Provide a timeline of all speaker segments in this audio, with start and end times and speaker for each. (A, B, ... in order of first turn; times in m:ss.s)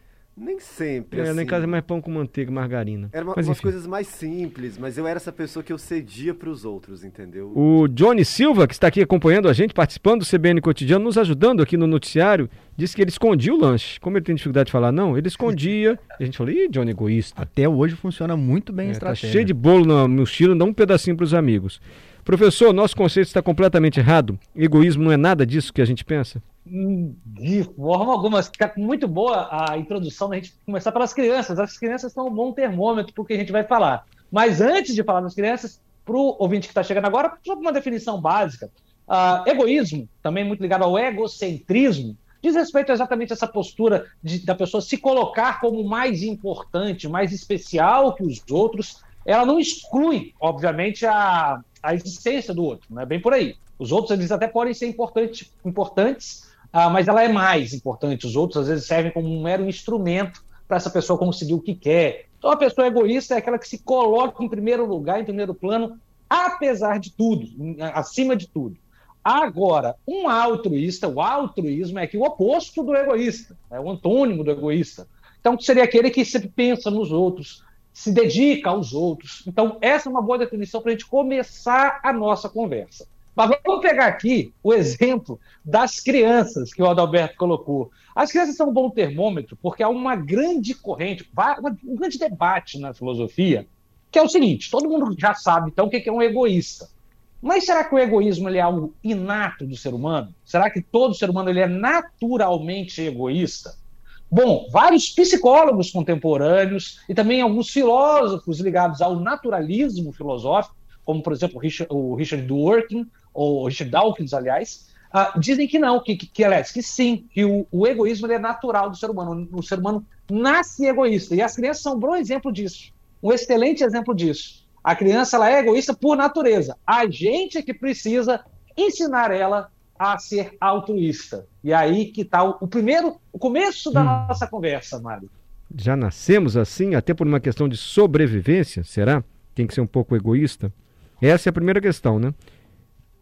0:00.4-0:01.8 A
0:01.1-0:03.7 B
0:03.1-0:07.6 A
0:07.5-0:17.5 B
0:17.4-0:19.5 C
0:18.8-0:26.4 B
0:26.7-1:36.9 D
1:37.4-1:43.8 D
1:44.3-2:15.3 D
2:13.9-2:14.4 B
2:15.7-2:22.3 B